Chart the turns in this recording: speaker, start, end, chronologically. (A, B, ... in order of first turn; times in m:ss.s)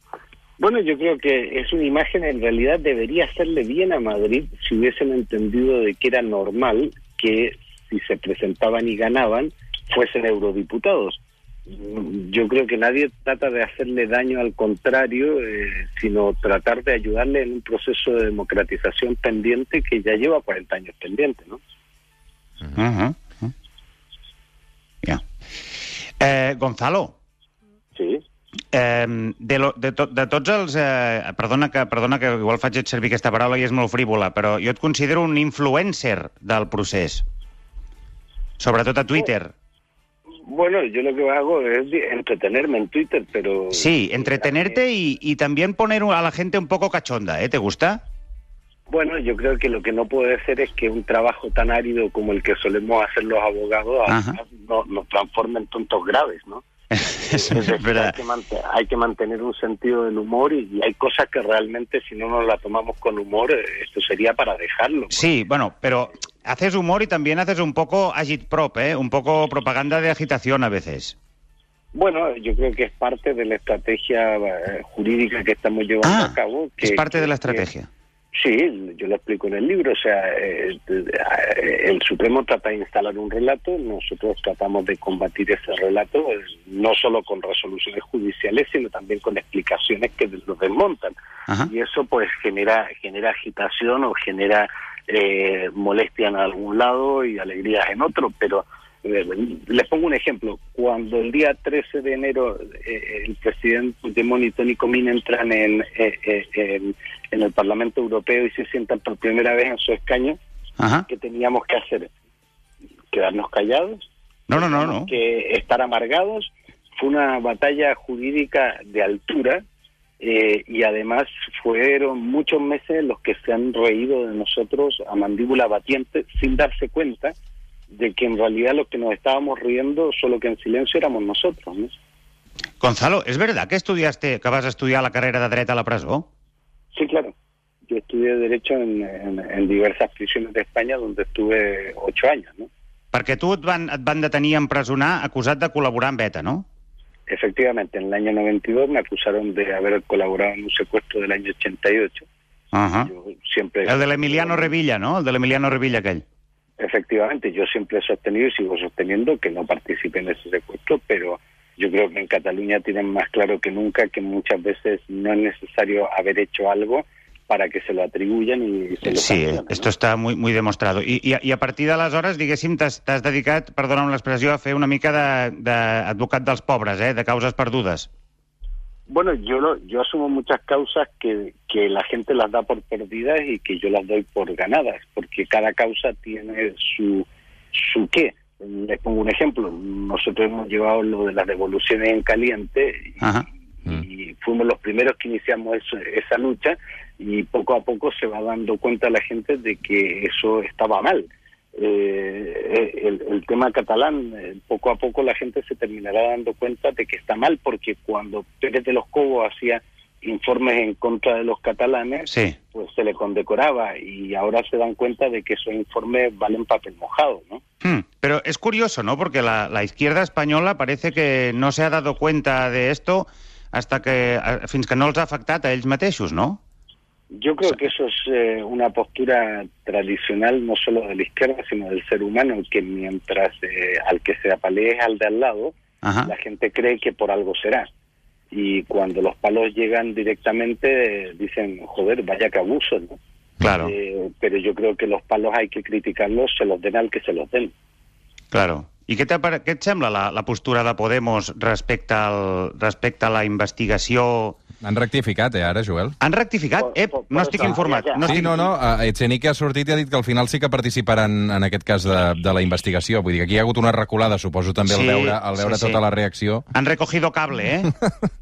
0:00.6-0:21.6 A
0:22.7-0:23.5 B
0:26.2-0:27.1 B
0:28.0-0:28.2 A
0:28.7-0:37.2 B
0:38.6-0:39.5 B
0:40.4-0:44.8 A
0:43.7-0:48.0 B
0:48.9-1:05.2 A
0:54.1-0:54.4 B
0:56.9-0:58.2 B
1:05.1-1:11.2 B
1:11.9-1:17.6 A
1:16.0-1:17.9 B
1:18.3-1:31.1 A
1:31.6-1:50.4 A
1:50.8-1:51.1 B
1:51.1-1:52.1 A
1:53.1-1:59.6 A
1:54.5-1:55.1 B
2:00.2-2:07.3 A
2:07.9-2:11.9 A
2:12.8-2:16.3 B
2:16.9-2:17.3 A
2:17.9-2:22.7 A
2:23.1-2:26.6 B
2:27.3-2:32.3 A
2:32.7-2:33.1 B
2:33.0-2:34.7 A
2:33.8-2:36.2 B
2:36.8-2:49.9 A
2:49.0-2:58.1 B
2:59.1-3:13.2 A
3:13.2-3:13.4 B
3:13.8-3:37.6 A
3:32.3-3:32.6 B
3:37.8-3:46.6 B
3:47.3-3:57.9 A
3:56.0-3:56.3 B
3:58.5-4:03.2 A
4:03.6-4:03.9 B
4:03.8-4:07.7 A
4:08.5-4:14.6 B
4:14.8-4:16.2 C
4:16.2-4:18.7 B
4:16.8-4:18.5 A
4:18.2-4:26.6 C
4:24.8-4:26.0 B
4:26.7-4:27.9 B